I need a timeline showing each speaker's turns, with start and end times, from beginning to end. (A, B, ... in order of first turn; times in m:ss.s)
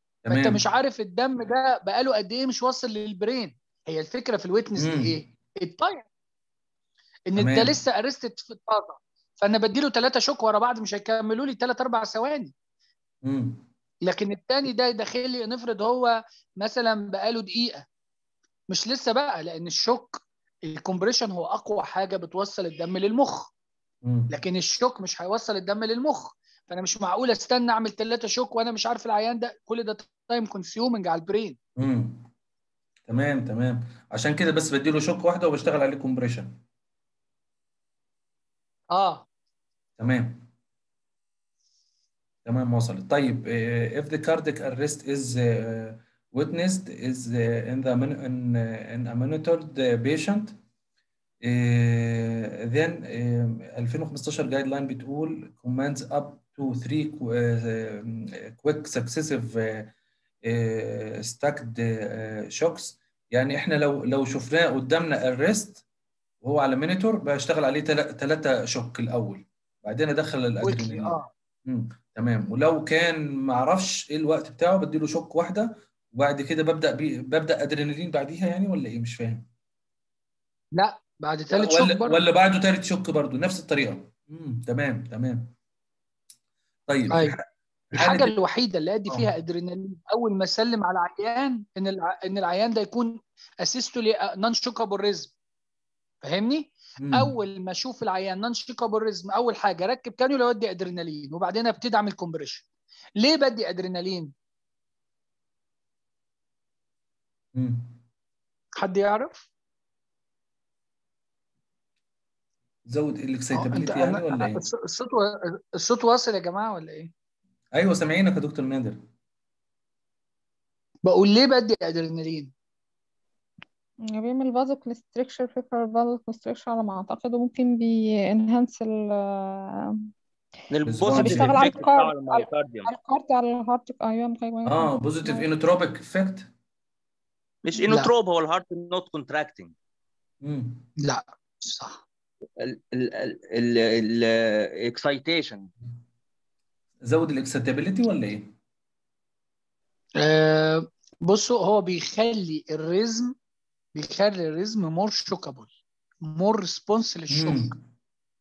0:00.2-0:00.6 A
0:00.3-0:06.1 B
0:04.8-0:05.2 A
0:07.3-0:12.5 B
0:07.4-0:07.8 A
0:13.2-0:13.6 A
0:14.0-0:17.9 B
0:18.7-0:23.5 B
0:24.0-0:24.3 A
0:24.3-0:31.6 B
0:31.8-0:32.3 A
0:33.1-0:36.6 A
0:38.9-0:39.3 B
0:40.0-0:40.5 A
0:42.4-0:50.6 A
0:51.4-0:59.9 A
1:00.4-1:05.8 A
1:06.4-1:19.5 A
1:10.6-1:11.3 B
1:20.8-1:22.2 B
1:21.6-1:25.5 A
1:26.9-1:28.3 A
1:27.9-1:35.3 B
1:36.2-1:42.7 B
1:37.0-1:37.3 A
1:43.2-1:44.3 B
1:47.6-1:48.0 A
1:48.8-1:49.5 B
1:52.8-1:54.7 A
1:53.5-1:57.1 B
1:57.7-1:59.0 A
2:01.0-2:02.5 B
2:04.1-2:10.1 C
2:10.7-2:12.9 D
2:10.9-2:11.8 A
2:11.0-2:15.5 C
2:14.7-2:16.5 A
2:17.6-2:19.7 D
2:20.4-2:20.9 A
2:21.0-2:22.0 B
2:22.6-2:25.7 D
2:27.0-2:28.5 A
2:30.2-2:33.4 B
2:34.0-2:35.7 B
2:36.2-2:37.7 B
2:37.3-2:37.8 A